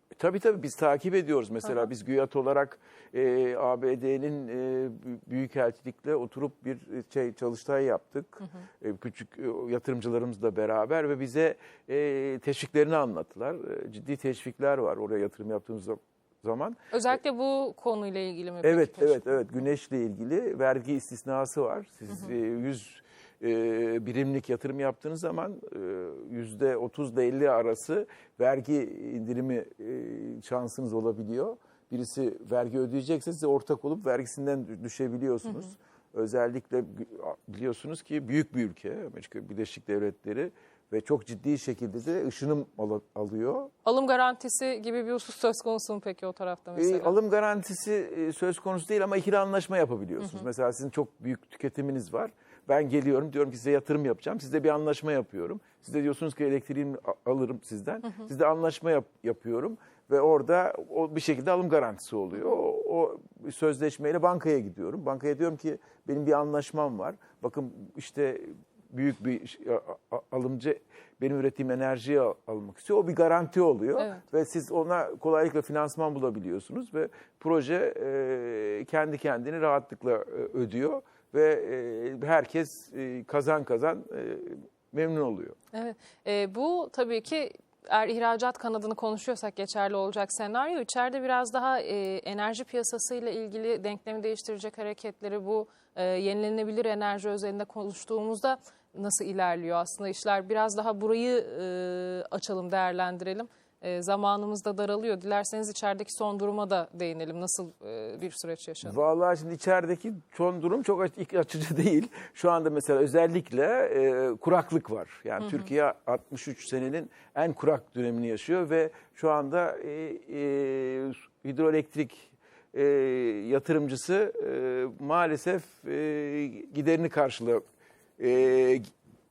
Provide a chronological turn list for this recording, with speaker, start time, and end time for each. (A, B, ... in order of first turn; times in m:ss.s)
0:00.2-0:17.2 A
0:16.9-0:19.5 B
0:18.6-0:43.7 A
0:43.8-0:47.2 B
0:46.8-1:25.6 A
0:50.2-0:50.5 B
1:25.7-1:49.0 B
1:48.8-2:07.6 A
1:55.4-1:55.7 B
2:08.2-2:08.9 A